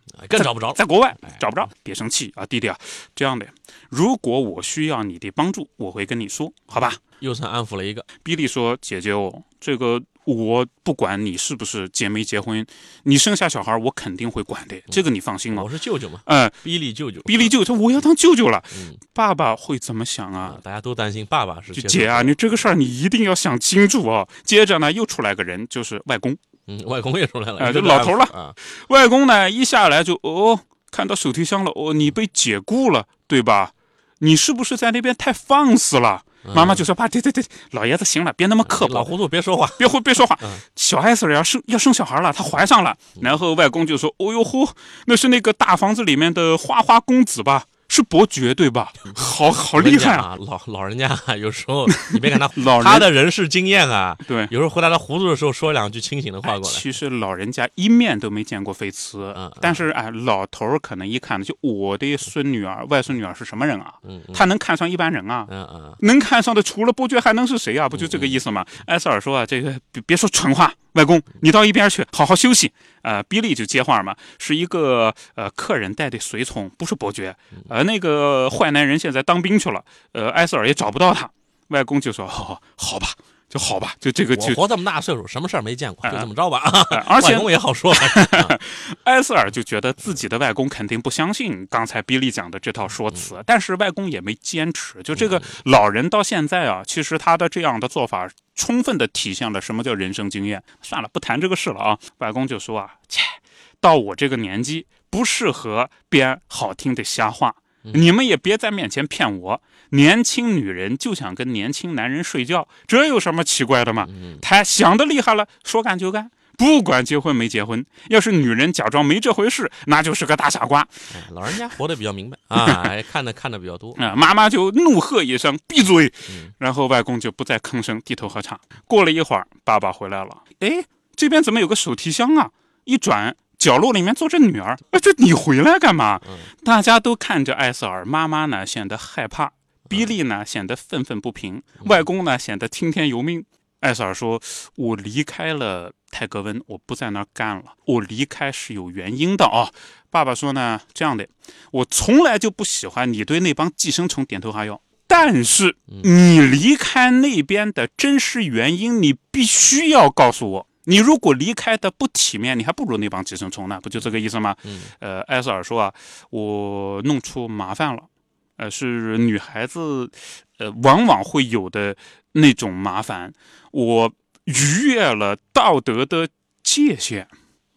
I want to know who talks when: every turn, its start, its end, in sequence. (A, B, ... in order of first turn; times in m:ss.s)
0:00.2-0:01.4 A
0:00.3-0:07.0 B
0:07.2-0:08.1 A
0:08.2-0:15.7 B
0:15.5-0:17.5 A
0:16.2-0:16.6 B
0:17.2-0:20.6 B
0:18.7-0:19.0 A
0:20.4-0:22.3 A
0:21.8-0:26.4 B
0:26.7-0:28.5 A
0:27.6-0:39.1 B
0:36.4-0:36.8 A
0:38.6-0:40.6 A
0:39.8-0:50.2 B
0:49.8-0:56.8 A
0:52.6-0:53.1 B
0:54.2-0:54.5 B
0:56.4-1:24.6 B
0:59.3-0:59.8 A
1:04.0-1:04.4 A
1:05.5-1:06.0 A
1:07.9-1:08.4 A
1:24.3-1:28.6 A
1:26.9-2:00.9 B
1:35.1-1:35.4 A
1:47.8-1:48.1 A
1:54.0-1:54.4 A
2:01.1-2:04.1 A
2:02.6-2:02.9 B
2:04.0-2:57.3 B
2:16.2-2:16.5 A
2:19.9-2:20.1 A
2:44.6-2:44.9 A